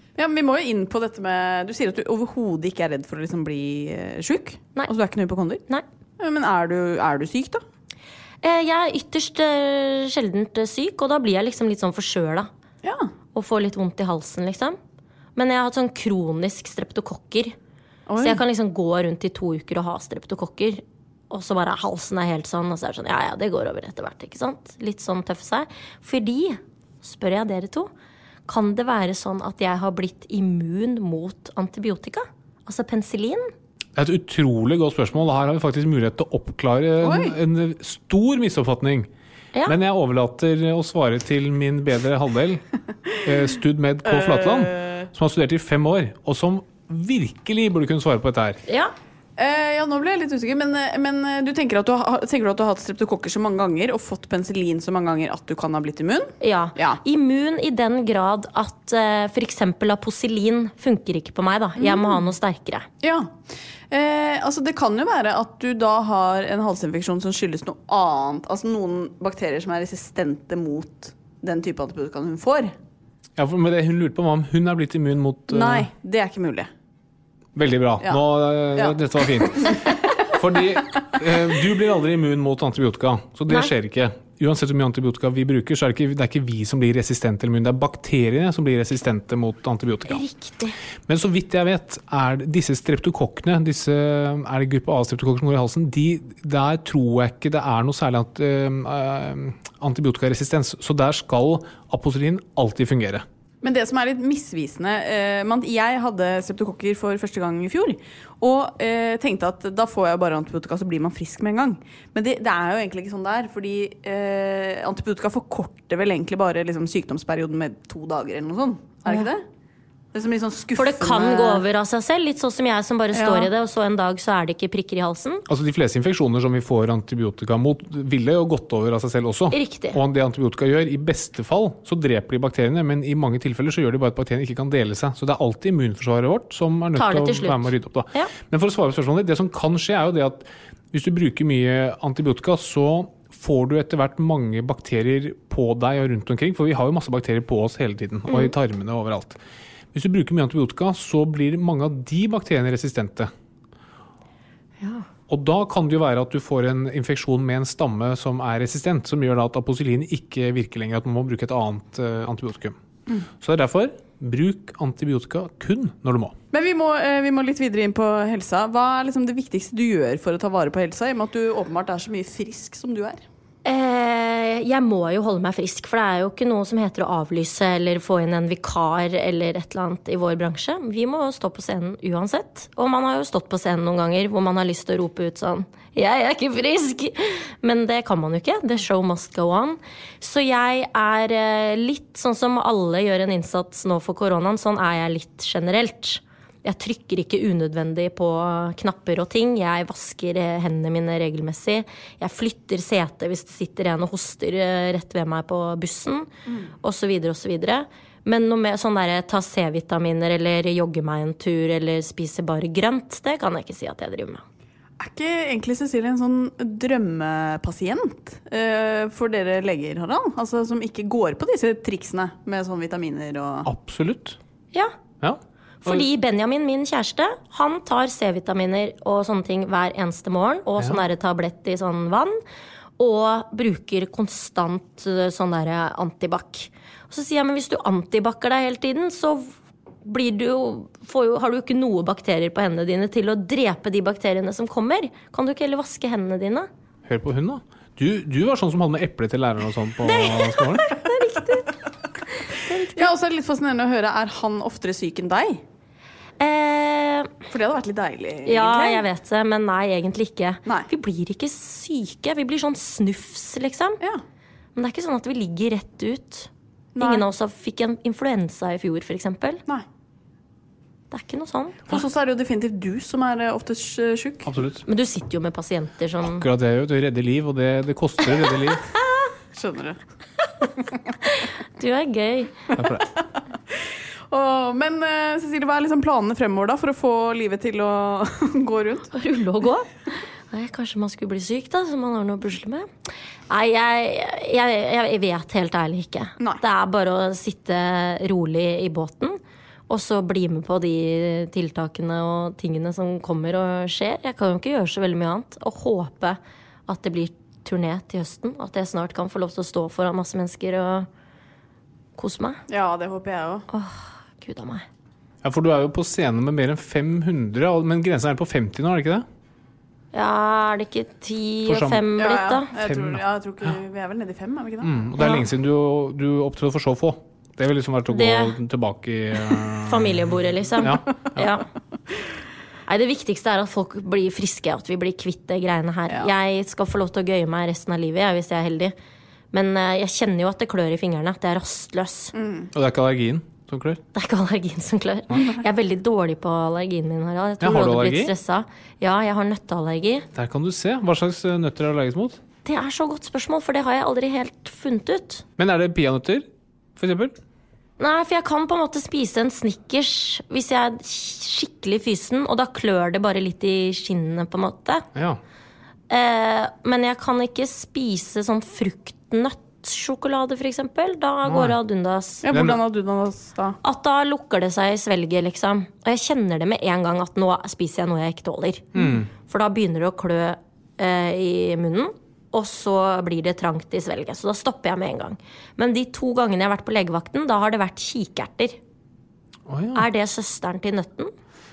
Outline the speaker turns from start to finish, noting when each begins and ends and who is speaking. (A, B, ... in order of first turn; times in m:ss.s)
0:00.2-0:05.6 A
0:06.2-0:07.6 A
0:08.4-0:12.5 B
0:12.8-0:13.1 A
0:13.3-0:14.8 B
0:15.4-0:17.6 B
0:18.1-0:18.4 A
0:18.2-0:27.9 B
0:28.5-0:33.5 B
0:34.0-0:39.1 C
0:37.0-0:37.4 A
0:39.7-0:42.6 C
0:43.2-0:48.6 C
0:44.1-0:45.1 A
0:48.7-0:48.9 B
0:49.4-0:57.0 A
0:56.4-1:02.9 B
1:01.8-1:02.2 A
1:03.0-1:03.4 A
1:03.9-1:12.7 A
1:13.4-1:15.9 C
1:15.5-1:16.7 A
1:17.6-1:30.2 C
1:18.7-1:19.0 A
1:19.5-1:19.9 A
1:30.1-1:30.8 B
1:31.1-1:43.2 C
1:43.6-1:59.4 A
2:00.1-2:01.6 A
2:00.8-2:05.4 B
2:03.1-2:03.5 A
2:05.5-2:29.4 C
2:09.5-2:10.0 B
2:17.0-2:18.3 B
2:28.3-2:28.5 B
2:29.9-2:33.3 C
2:34.8-2:35.1 B
2:35.3-2:42.8 C
2:43.4-2:46.4 C
2:46.5-2:53.2 A
2:53.6-3:26.3 B
3:26.8-3:34.4 B
3:35.0-3:43.7 A
3:43.7-3:44.4 C
3:45.2-3:46.1 C
3:45.8-3:52.4 B
3:53.0-3:59.5 B
4:00.0-4:06.7 B
4:07.1-4:10.9 C
4:10.2-4:11.7 B
4:11.1-4:11.6 A
4:12.4-4:13.1 B
4:12.9-4:15.6 A
4:16.4-4:17.3 B
4:17.5-4:19.1 A
4:18.4-4:24.0 B
4:24.8-4:29.6 B
4:27.0-4:27.3 A
4:31.1-4:31.8 B
4:31.9-4:34.5 A
4:34.5-4:34.8 C
4:34.9-4:36.5 B
4:36.2-4:38.9 C
4:39.6-4:40.0 A
4:41.2-4:42.6 B
4:42.8-4:43.0 C
4:43.4-4:49.1 A
4:49.1-4:52.9 B
4:53.5-5:11.1 B
5:12.2-5:12.6 B
5:12.7-5:13.7 A
5:13.7-5:14.8 B
5:15.4-5:19.3 C
5:20.1-5:22.7 B
5:21.7-5:22.0 C
5:22.2-5:24.9 A
5:22.8-5:23.2 C
5:24.8-5:31.5 C
5:28.1-5:28.6 B
5:29.8-5:31.7 B
5:32.9-5:39.0 B
5:39.5-5:42.3 B
5:42.3-5:42.7 A
5:42.7-5:44.0 C
5:44.2-5:50.3 B
5:47.6-5:48.3 C
5:50.4-5:52.4 C
5:52.6-5:55.4 B
5:55.6-5:57.4 C
5:58.0-6:05.1 B
6:05.2-6:05.4 C
6:06.1-6:12.5 B
6:11.4-6:11.8 C
6:12.4-6:13.8 A
6:12.5-6:12.8 C
6:13.8-6:28.8 B
6:19.0-6:19.3 C
6:29.7-6:30.1 C
6:30.0-6:31.3 B